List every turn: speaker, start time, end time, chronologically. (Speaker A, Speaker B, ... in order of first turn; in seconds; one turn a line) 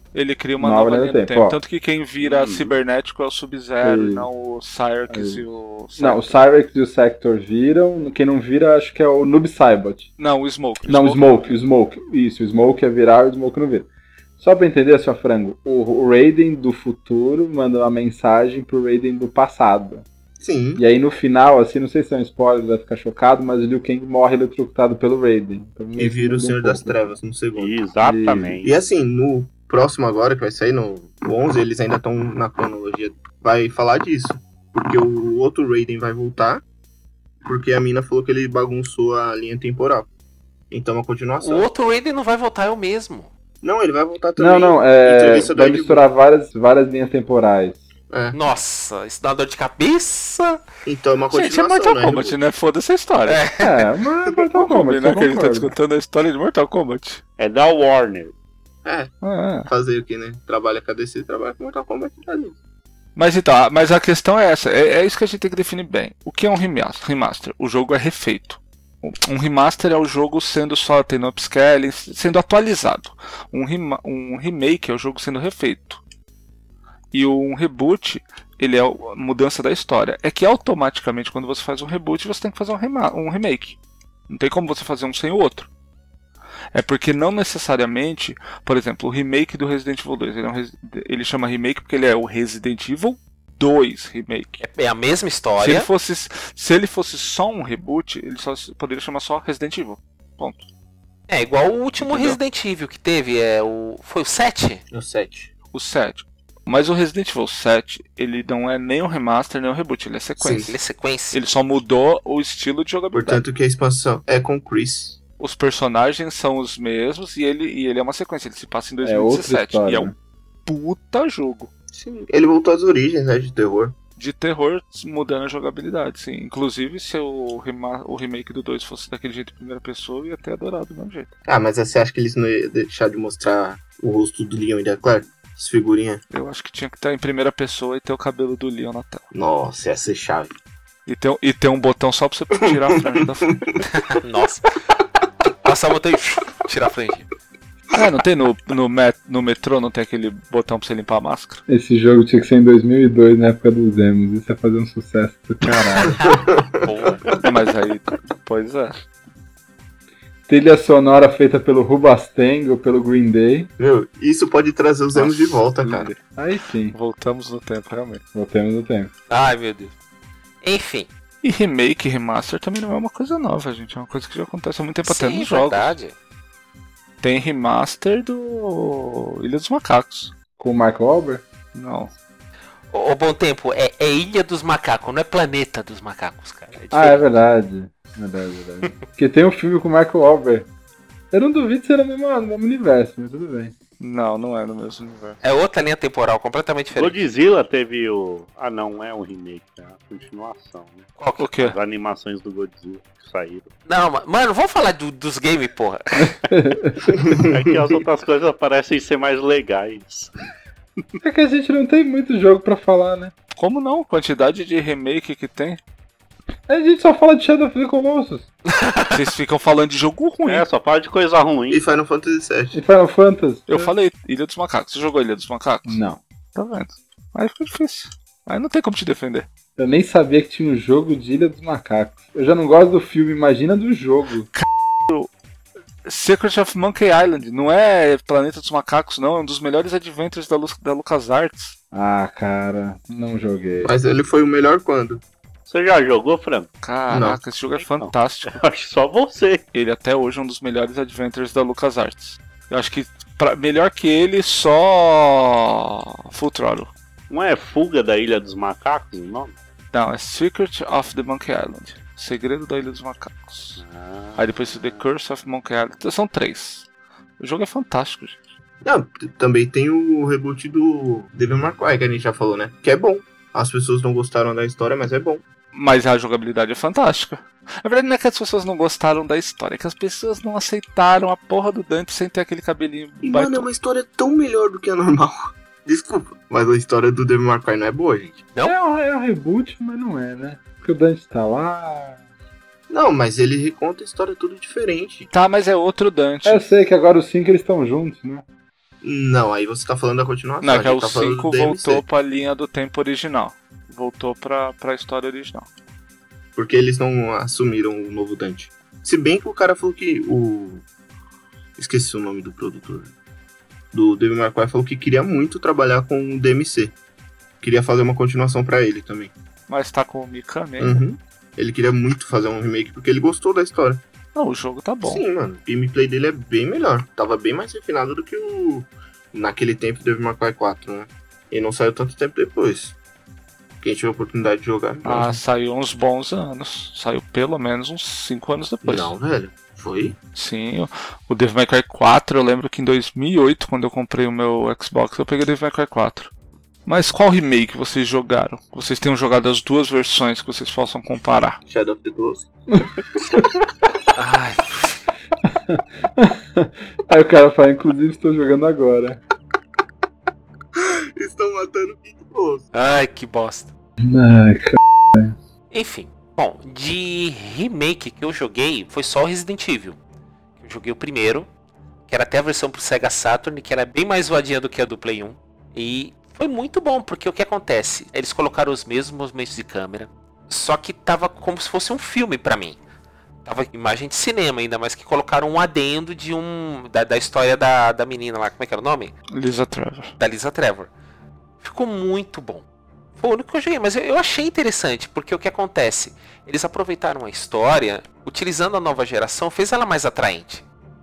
Speaker A: 0.1-6.4
Speaker B: 0.6-1.6
Speaker C: 2.2-2.8
Speaker B: 3.8-4.3
Speaker B: 5.1-5.4
Speaker B: 6.0-10.1
Speaker A: 10.2-11.5
Speaker B: 10.8-20.1
Speaker D: 20.4-20.8
Speaker B: 20.8-27.0
Speaker D: 26.0-27.8
Speaker C: 27.6-28.7
Speaker B: 28.0-28.6
Speaker D: 28.6-36.6
Speaker D: 37.5-40.1
Speaker D: 40.7-41.7
Speaker E: 41.4-43.3
Speaker D: 43.6-46.1
Speaker B: 44.4-47.8
Speaker D: 48.1-48.4
Speaker E: 48.3-50.6
Speaker D: 50.9-52.4
Speaker A: 51.3-53.4
Speaker E: 53.2-53.8
Speaker B: 53.6-55.7
Speaker A: 54.5-57.2
Speaker C: 57.4-58.3
Speaker D: 58.9-59.1
Speaker A: 59.2-59.7
Speaker D: 59.7-62.5
Speaker A: 63.2-76.0
Speaker A: 77.1-85.7
Speaker A: 86.7-94.6
Speaker E: 94.6-95.9
Speaker A: 95.6-100.7
Speaker E: 101.3-104.8
Speaker A: 102.0-102.4
Speaker D: 104.9-105.5
Speaker A: 105.7-110.8
Speaker D: 110.4-110.7
Speaker E: 110.6-111.5
Speaker A: 111.3-113.4
Speaker D: 113.1-115.2
Speaker A: 115.4-120.1
Speaker B: 119.0-120.1
Speaker A: 120.7-121.7
Speaker D: 121.9-124.0
Speaker A: 124.2-131.3
Speaker D: 131.5-136.2
Speaker A: 136.3-139.3
Speaker D: 139.3-140.5
Speaker A: 141.1-143.5
Speaker D: 142.8-143.8
Speaker E: 144.0-144.7
Speaker E: 145.6-147.3
Speaker A: 147.9-151.6
Speaker B: 151.7-156.2
Speaker E: 156.1-157.4
Speaker D: 156.2-157.2
Speaker A: 157.4-159.0
Speaker B: 160.5-163.7
Speaker D: 163.8-166.1
Speaker A: 165.2-166.2
Speaker B: 166.3-166.9
Speaker A: 166.9-168.2
Speaker B: 168.3-169.1
Speaker E: 169.3-169.9
Speaker E: 170.6-171.1
Speaker A: 171.4-176.0
Speaker E: 175.0-176.1
Speaker A: 177.2-180.3
Speaker B: 180.6-181.4
Speaker A: 181.7-182.1
Speaker E: 182.9-187.2
Speaker B: 186.9-190.7
Speaker B: 191.3-193.7
Speaker A: 194.0-195.4
Speaker E: 195.4-197.2
Speaker C: 197.0-203.7
Speaker E: 201.2-201.5
Speaker A: 201.4-201.8
Speaker E: 203.9-206.4
Speaker B: 206.2-207.2
Speaker D: 207.1-207.9
Speaker C: 207.5-210.3
Speaker B: 211.2-213.3
Speaker A: 213.5-215.8
Speaker B: 216.7-218.5
Speaker E: 218.7-219.2
Speaker A: 219.1-220.7
Speaker C: 220.4-221.8
Speaker D: 221.7-222.8
Speaker B: 222.7-223.9
Speaker A: 223.7-226.0
Speaker B: 225.9-226.2
Speaker A: 226.6-229.5
Speaker B: 229.8-234.5
Speaker A: 234.5-235.3
Speaker A: 236.1-241.8
Speaker B: 241.9-243.9
Speaker D: 243.8-245.2
Speaker C: 245.7-246.7
Speaker A: 246.8-248.6
Speaker D: 247.1-247.4
Speaker C: 247.8-249.7
Speaker A: 249.7-256.9
Speaker C: 257.3-259.6
Speaker A: 259.9-263.8
Speaker C: 263.8-265.0
Speaker A: 264.4-266.9
Speaker A: 267.4-268.4
Speaker D: 268.8-275.4
Speaker A: 275.7-283.7
Speaker D: 283.2-288.4
Speaker B: 288.6-292.2
Speaker D: 292.9-295.3
Speaker A: 295.3-296.7
Speaker B: 296.4-298.4
Speaker D: 299.0-302.0
Speaker A: 300.6-305.7
Speaker D: 306.6-310.9
Speaker D: 311.8-313.1
Speaker D: 313.9-317.0
Speaker D: 317.6-319.3
Speaker A: 319.7-321.0
Speaker D: 320.8-324.0
Speaker A: 324.4-325.2
Speaker D: 325.0-333.0
Speaker D: 333.8-335.4
Speaker A: 335.1-339.1
Speaker D: 338.8-340.2
Speaker A: 340.3-346.3
Speaker A: 346.9-351.6
Speaker D: 351.7-352.5
Speaker E: 354.2-355.0
Speaker B: 355.5-359.2
Speaker D: 360.8-362.7
Speaker E: 362.7-363.7
Speaker B: 364.0-365.4
Speaker E: 365.7-370.0
Speaker E: 370.6-371.5
Speaker E: 372.1-382.8
Speaker E: 383.4-389.1
Speaker A: 389.3-390.1
Speaker E: 390.2-390.9
Speaker E: 391.6-392.6
Speaker E: 393.2-400.6